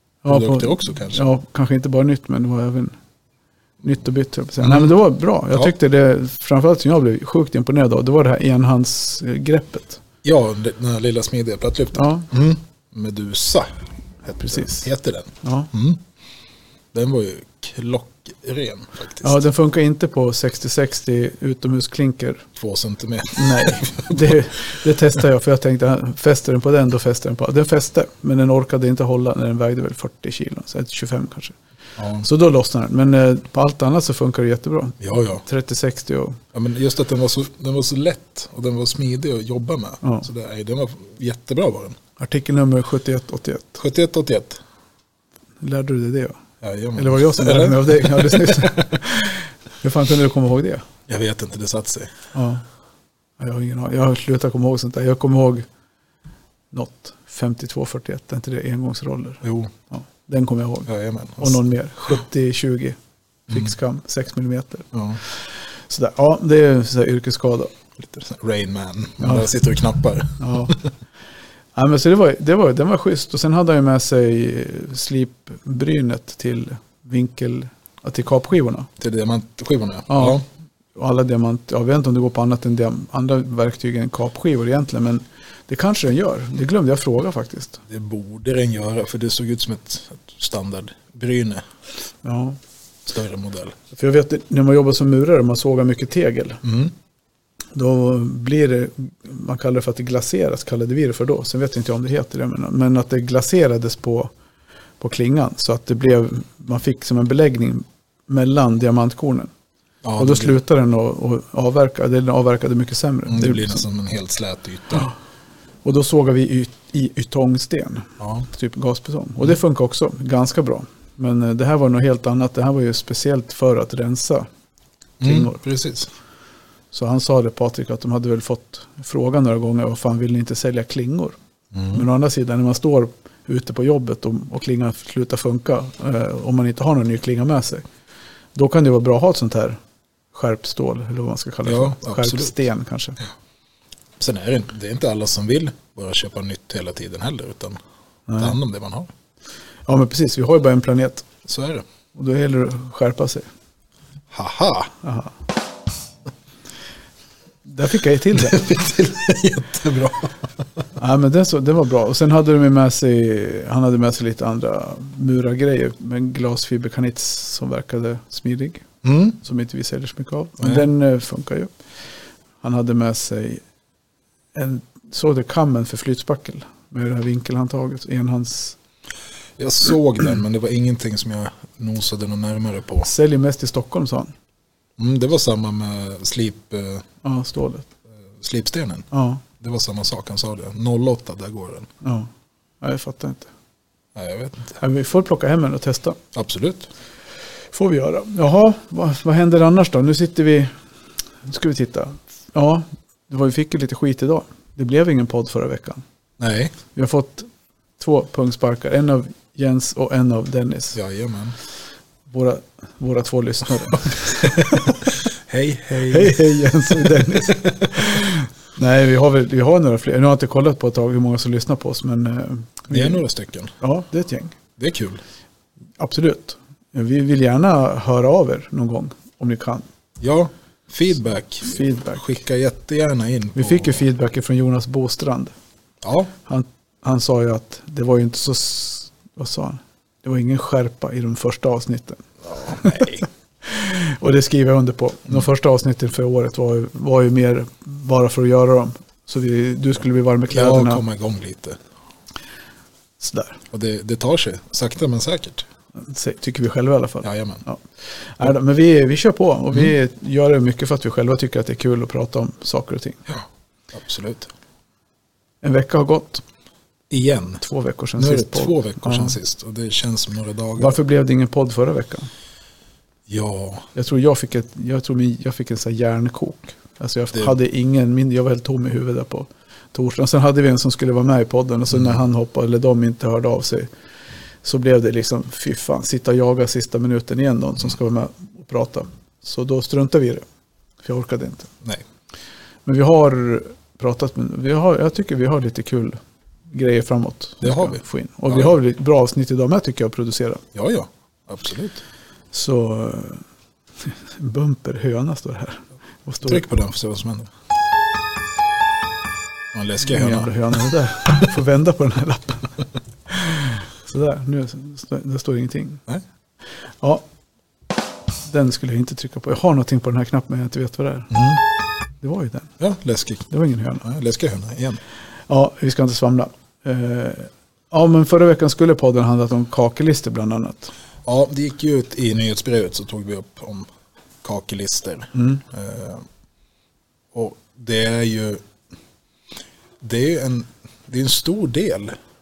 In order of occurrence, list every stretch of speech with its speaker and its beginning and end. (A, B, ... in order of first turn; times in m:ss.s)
0:00.2-0:03.0 A
0:00.3-0:01.2 B
0:03.8-0:10.0 A
0:04.6-0:04.9 B
0:10.2-0:16.0 B
0:11.9-0:12.3 A
0:14.4-0:14.9 A
0:15.4-0:15.7 A
0:16.9-0:19.4 B
0:19.2-0:22.5 A
0:22.6-0:24.2 B
0:23.3-0:31.6 A
0:32.0-0:32.3 B
0:32.2-0:36.4 A
0:35.0-0:35.4 B
0:36.5-0:42.0 B
0:42.2-0:43.8 A
0:43.8-0:44.6 B
0:45.6-0:46.4 A
0:46.6-0:48.7 B
0:47.0-0:50.8 A
0:51.1-0:52.1 B
0:52.3-0:52.6 A
0:53.4-0:55.6 A
0:56.7-1:03.0 A
0:59.4-0:59.7 B
1:00.8-1:01.6 B
1:03.5-1:07.7 A
1:04.9-1:05.2 B
1:08.0-1:10.9 B
1:09.2-1:09.5 A
1:10.4-1:10.7 A
1:11.8-1:18.9 A
1:19.0-1:20.4 B
1:20.1-1:20.4 A
1:21.0-1:27.8 A
1:27.9-1:31.6 B
1:32.2-1:32.6 A
1:33.0-1:33.8 B
1:33.9-1:36.6 A
1:36.6-1:36.9 B
1:37.7-1:44.3 A
1:45.0-1:49.5 A
1:50.0-1:50.6 B
1:50.2-1:53.8 A
1:53.3-1:55.1 B
1:55.8-2:04.5 A
1:58.2-1:58.5 B
2:05.2-2:06.1 B
2:05.2-2:05.6 A
2:06.9-2:11.4 A
2:11.7-2:12.0 B
2:11.9-2:17.8 A
2:18.5-2:19.8 A
2:20.3-2:23.2 A
2:21.6-2:22.5 B
2:24.2-2:27.8 B
2:28.3-2:28.6 A
2:28.4-2:29.1 B
2:29.9-2:31.2 A
2:31.4-2:31.8 B
2:32.1-2:33.5 A
2:34.3-2:34.9 B
2:35.0-2:35.3 A
2:37.6-2:38.6 A
2:38.3-2:40.5 B
2:41.0-2:48.8 A
2:49.0-2:49.4 B
2:49.4-2:51.7 A
2:50.6-2:50.8 B
2:52.6-2:53.6 A
2:54.5-2:58.8 A
2:59.6-3:03.1 B
3:03.0-3:04.3 A
3:05.0-3:07.0 B
3:07.2-3:07.9 A
3:08.4-3:09.0 B
3:09.1-3:09.4 A
3:09.6-3:11.9 B
3:12.0-3:12.3 A
3:12.8-3:13.5 A
3:14.1-3:14.8 B
3:14.8-3:16.2 A
3:16.3-3:16.9 B
3:17.7-3:20.7 A
3:21.5-3:26.0 A
3:26.4-3:26.8 B
3:26.9-3:31.0 A
3:30.9-3:31.6 B
3:32.3-3:35.0 A
3:34.4-3:38.2 B
3:36.0-3:43.2 A
3:42.9-3:43.7 B
3:43.8-3:44.6 A
3:44.8-3:45.2 B
3:46.0-3:49.8 A
3:50.2-3:54.0 B
3:51.6-3:52.2 A
3:53.5-3:55.5 A
3:56.0-3:56.3 B
3:56.4-4:11.0 A
4:02.4-4:03.2 B
4:10.5-4:11.8 B
4:13.2-4:13.6 A
4:13.7-4:15.7 B
4:16.0-4:23.2 A
4:17.2-4:17.6 B
4:23.3-4:24.5 B
4:25.6-4:26.4 A
4:27.1-4:27.6 B
4:27.6-4:29.4 A
4:28.2-4:31.0 B
4:30.8-4:32.3 A
4:33.3-4:33.9 B
4:33.9-4:43.9 A
4:41.9-4:42.2 B
4:44.6-4:50.4 A
4:51.0-4:51.7 A
4:52.8-4:56.2 A
4:56.7-5:00.6 A
4:57.6-4:58.7 B
5:00.7-5:02.0 B
5:02.5-5:03.4 A
5:04.0-5:06.6 A
5:06.4-5:07.5 B
5:09.7-5:10.7 B
5:10.0-5:12.7 A
5:13.3-5:16.0 A
5:18.5-5:21.3 A
5:21.3-5:21.6 B
5:22.2-5:22.7 A
5:22.8-5:23.5 B
5:23.5-5:24.0 A
5:24.0-5:25.0 B
5:25.5-5:30.9 A
5:31.2-5:33.9 B
5:34.4-5:36.2 B
5:35.3-5:35.6 A
5:37.3-5:38.6 B
5:40.0-5:42.1 B